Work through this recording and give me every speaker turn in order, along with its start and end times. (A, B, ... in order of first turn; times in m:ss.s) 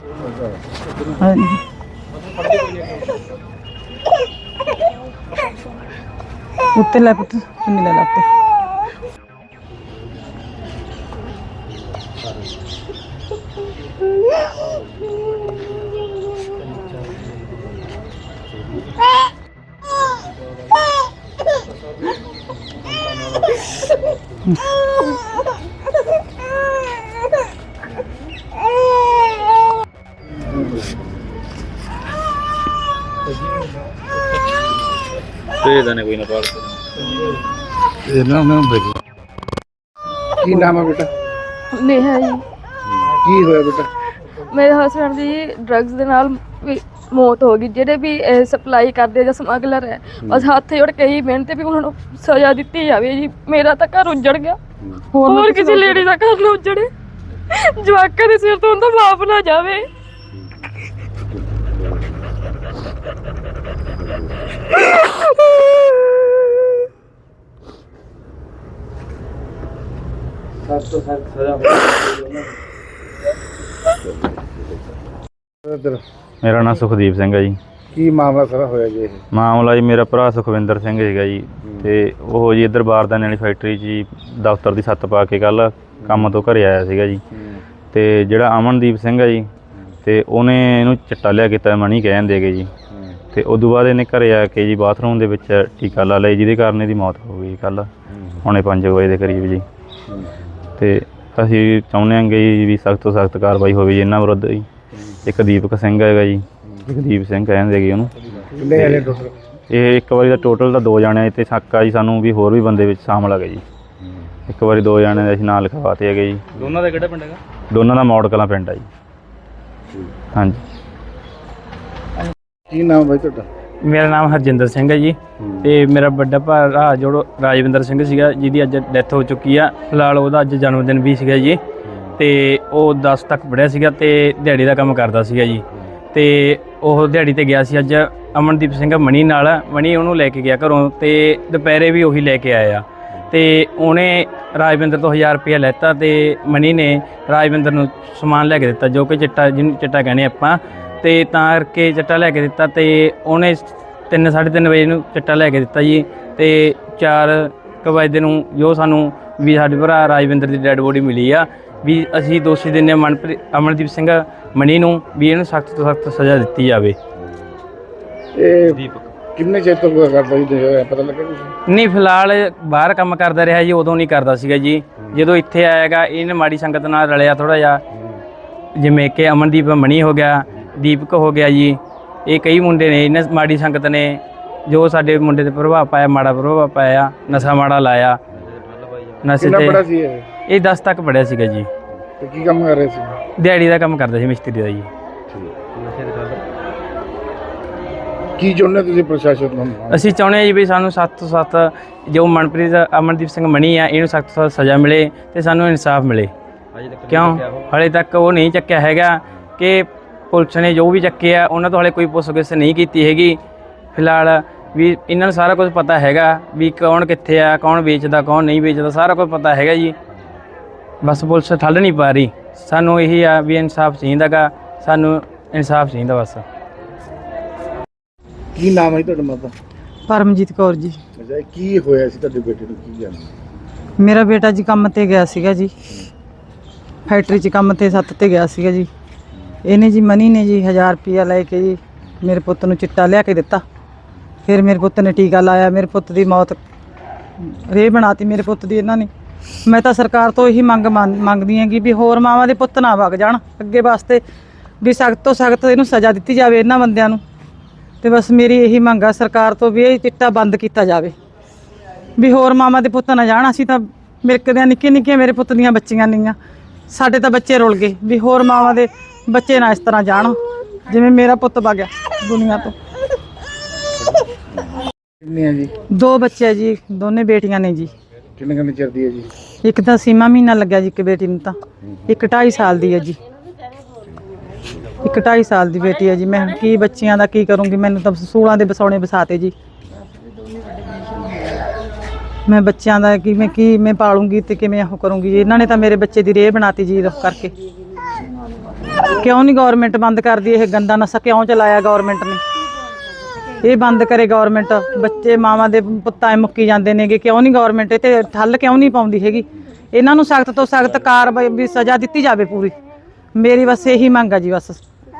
0:01.2-0:01.6 A
0:06.7-0:08.2 A
0:35.6-0:36.8 B
0:38.0-0:38.9 C
0:40.4-0:41.1 C
0:41.7-0:42.4 D
0:43.0-0:43.9 C
0:44.4-0:54.6 D
0:55.1-0:56.0 A
0:55.2-0:56.9 D
0:57.5-0:59.8 D
1:10.7-1:12.3 E
1:15.6-1:16.0 C
1:16.4-1:17.6 B
1:17.9-1:19.2 C
1:19.3-1:27.2 B
1:27.9-1:29.5 B
1:30.0-1:32.7 B
1:33.3-1:37.9 B
1:38.4-1:39.6 B
1:40.8-1:44.6 B
1:45.2-1:48.1 B
1:48.6-1:49.3 C
1:48.7-1:49.1 B
1:49.7-1:53.6 B
1:54.5-1:58.9 B
2:00.3-2:00.6 B
2:02.7-2:03.5 C
2:03.9-2:11.6 E
2:12.2-2:47.0 E
2:48.3-2:51.5 C
2:51.7-2:57.8 E
2:58.8-3:08.2 E
3:09.2-3:09.8 E
3:09.3-3:10.2 C
3:10.5-3:11.7 E
3:12.2-3:13.2 C
3:13.4-3:14.9 E
3:18.4-3:20.1 C
3:19.9-3:26.3 E
3:27.1-3:33.4 E
3:33.9-3:40.0 E
3:41.0-3:46.4 E
3:48.6-3:49.5 C
3:50.1-3:51.0 A
3:51.2-3:53.3 C
3:54.0-3:55.7 A
3:57.1-3:58.9 A
3:59.6-4:03.6 A
4:04.4-4:06.6 A
4:07.4-4:09.1 A
4:09.6-4:14.2 A
4:14.8-4:17.2 A
4:18.0-4:21.1 A
4:22.2-4:26.4 A
4:26.9-4:32.7 A
4:35.2-4:35.7 C
4:35.9-4:37.9 A
4:38.4-4:39.3 C
4:39.6-4:41.5 A
4:42.1-4:43.2 A
4:45.0-4:49.5 A
4:52.4-4:57.5 A
4:59.0-5:02.4 A
5:03.6-5:12.7 A
5:13.4-5:14.8 A